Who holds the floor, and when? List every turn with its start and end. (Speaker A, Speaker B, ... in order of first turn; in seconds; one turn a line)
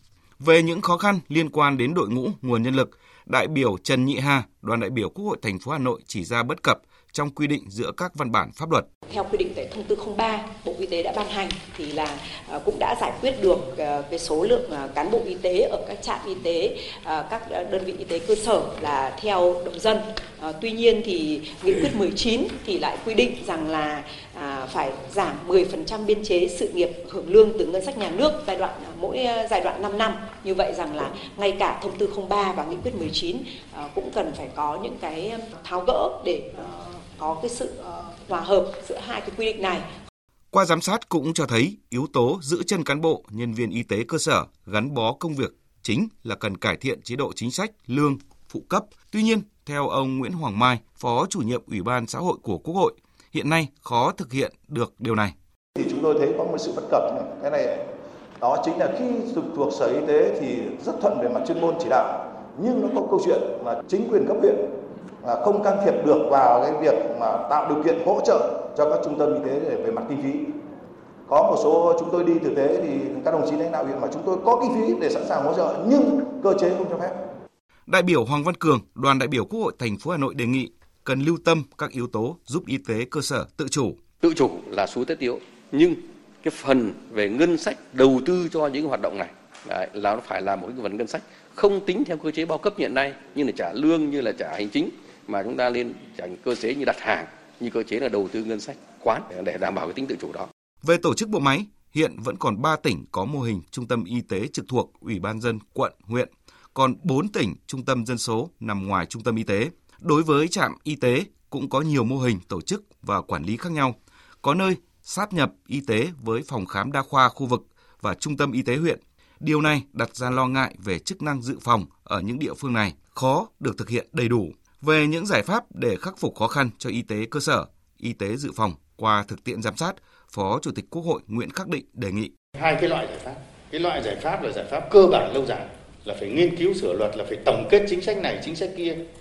Speaker A: 0.4-8.8
Speaker B: 9.1-39.9
Speaker A: 40.5-55.3
Speaker C: 55.8-57.8
Speaker C: 58.4-64.6
Speaker C: 65.2-70.5
Speaker C: 71.3-77.1
Speaker A: 77.9-84.0
Speaker D: 84.2-100.5
Speaker A: 100.8-132.3
Speaker E: 132.6-139.0